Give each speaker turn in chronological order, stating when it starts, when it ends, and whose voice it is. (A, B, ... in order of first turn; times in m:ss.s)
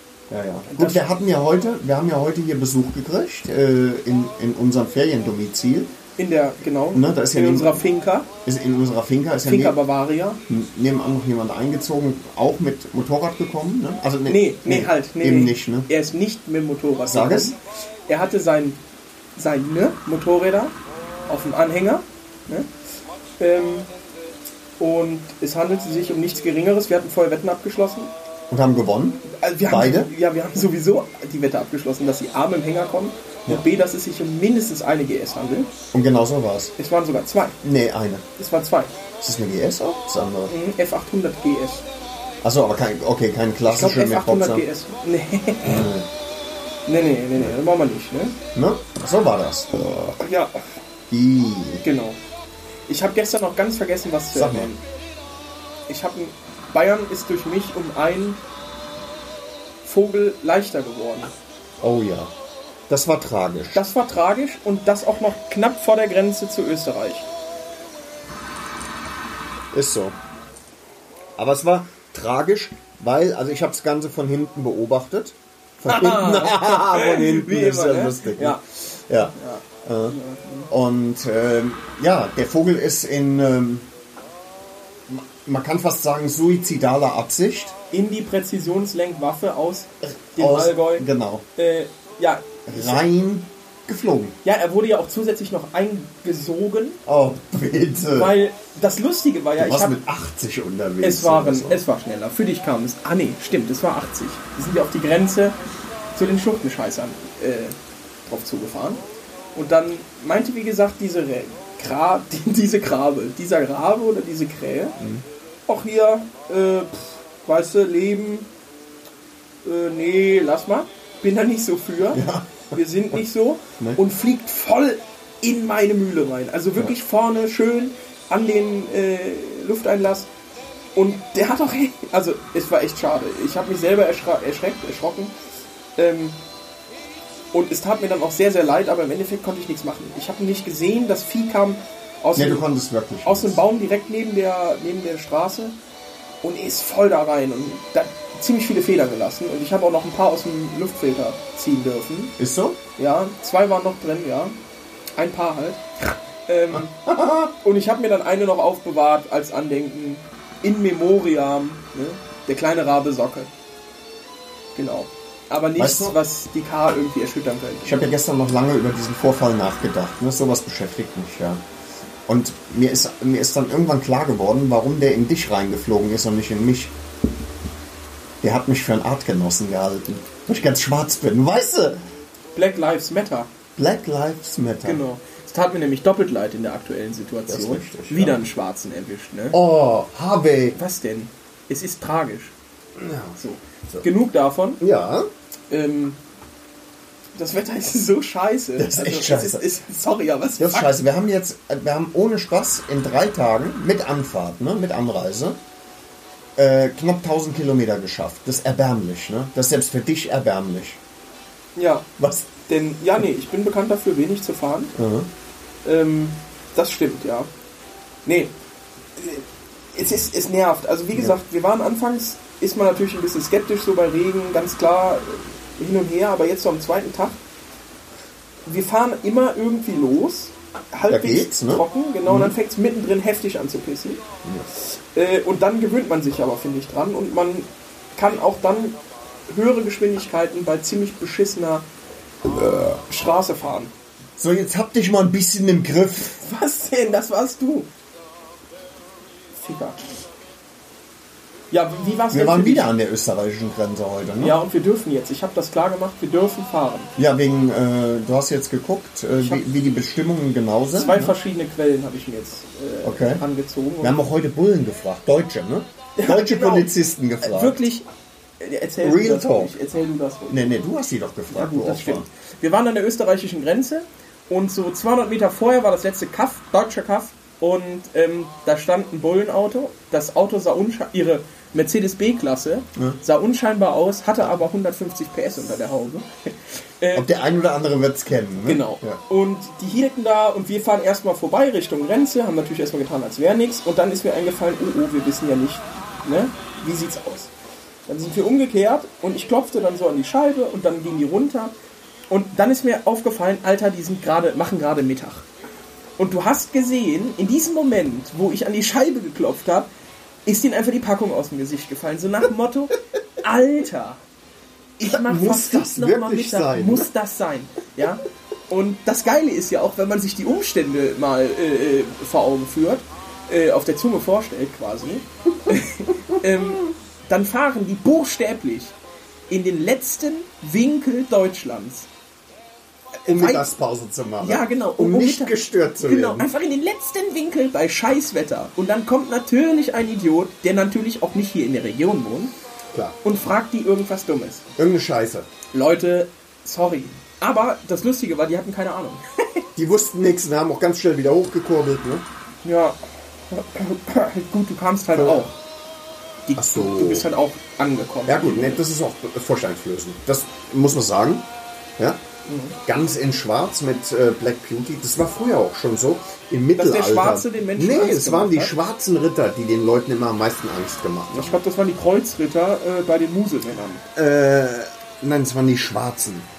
0:00.3-0:05.9 A
0:00.7-0:01.0 B
0:06.2-0:08.3 B
0:06.9-0:07.9 A
0:08.4-0:09.8 A
0:09.4-0:10.4 B
0:10.5-0:15.9 A
0:14.3-0:18.8 B
0:17.1-0:17.6 A
0:19.4-0:20.7 B
0:21.3-0:22.7 B
0:23.4-0:23.9 B
0:24.8-0:28.1 B
0:28.5-0:30.1 A
0:29.3-0:35.7 B
0:35.9-0:36.7 A
0:36.8-0:37.6 B
0:37.6-0:38.3 A
0:38.4-0:39.0 B
0:39.2-0:40.6 A
0:40.5-0:41.8 B
0:42.4-0:44.7 A
0:43.7-0:45.9 B
0:45.6-0:46.1 A
0:46.9-0:48.4 B
0:48.6-0:50.1 A
0:50.2-0:50.6 B
0:51.1-0:51.8 A
0:51.8-0:52.2 B
0:52.9-0:54.8 B
0:54.3-0:54.7 A
0:55.9-0:58.4 B
0:59.8-1:01.3 B
1:01.8-1:02.3 A
1:02.9-1:03.8 A
1:03.7-1:07.3 B
1:09.7-1:10.2 A
1:11.4-1:20.2 A
1:15.9-1:18.6 B
1:19.3-1:20.7 B
1:20.7-1:23.9 A
1:25.1-1:27.8 A
1:27.9-1:33.0 B
1:30.0-1:31.4 A
1:32.7-1:34.4 A
1:34.4-1:37.0 B
1:37.1-1:38.4 A
1:38.1-1:40.0 B
1:39.6-1:41.8 A
1:41.0-1:45.6 B
1:46.1-1:47.8 B
1:48.3-1:49.0 B
1:49.6-1:55.0 B
1:55.0-1:55.2 A
1:55.7-1:58.5 B
1:59.6-2:10.3 B
2:02.1-2:02.8 A
2:11.0-2:15.3 B
2:16.0-2:16.4 B
2:17.5-2:22.6 B
2:22.4-2:23.6 A
2:23.2-2:25.8 B
2:26.4-2:32.4 B
2:32.4-2:32.8 A
2:33.0-2:34.6 B
2:35.2-2:35.8 B
2:36.4-2:37.0 B
2:37.0-2:37.5 A
2:37.6-2:43.5 B
2:44.8-2:48.1 B
2:45.8-2:46.2 A
2:47.8-2:51.6 A
2:52.3-2:57.0 A
2:58.4-3:02.0 A
3:02.6-3:03.5 B
3:03.8-3:05.0 A
3:04.8-3:09.6 B
3:07.5-3:08.4 A
3:09.5-3:10.8 A
3:10.8-3:12.5 B
3:13.0-3:14.1 A
3:13.4-3:14.8 B
3:14.8-3:15.3 A
3:15.7-3:16.2 B
3:17.4-3:21.0 B
3:18.8-3:19.7 A
3:20.6-3:25.6 A
3:26.6-3:31.0 A
3:31.8-3:32.1 B
3:32.2-3:32.5 A
3:32.6-3:35.0 B
3:35.0-3:35.3 A
3:35.8-3:37.5 B
3:38.3-3:38.5 B
3:39.2-3:47.4 B
3:48.7-3:54.2 B
3:51.1-3:52.6 A
3:54.8-4:01.9 B
4:02.5-4:03.9 B
4:04.4-4:06.4 A
4:06.4-4:07.9 B
4:09.5-4:10.1 B
4:11.7-4:12.9 B
4:12.3-4:14.6 A
4:14.4-4:17.1 B
4:17.2-4:21.4 A
4:19.4-4:19.8 B
4:21.0-4:24.2 B
4:23.0-4:23.4 A
4:24.0-4:27.8 A
4:26.2-4:26.9 B
4:27.4-4:28.1 B
4:28.6-4:30.7 B
4:29.0-4:29.7 A
4:30.5-4:32.3 A
4:31.5-4:47.3 B
4:47.1-4:49.2 A
4:48.6-4:57.5 B
4:58.1-5:01.8 B
5:02.3-5:05.5 B
5:06.2-5:09.9 B
5:10.5-5:14.2 B
5:15.0-5:29.0 B
5:15.1-5:17.1 A
5:29.5-5:32.1 B
5:33.2-5:33.7 B
5:33.3-5:36.5 A
5:34.4-5:42.5 B
5:42.9-5:43.2 A
5:43.2-5:44.7 B
5:44.8-5:45.5 A
5:45.7-5:49.6 B
5:49.8-5:52.3 A
5:52.6-5:53.0 B
5:53.5-5:55.6 B
5:55.2-5:55.5 A
5:56.5-5:58.8 B
5:56.6-5:57.3 A
5:58.3-6:02.2 A
6:02.5-6:02.8 B
6:02.8-6:11.6 A
6:06.8-6:08.8 B
6:11.3-6:14.0 B
6:14.2-6:16.5 A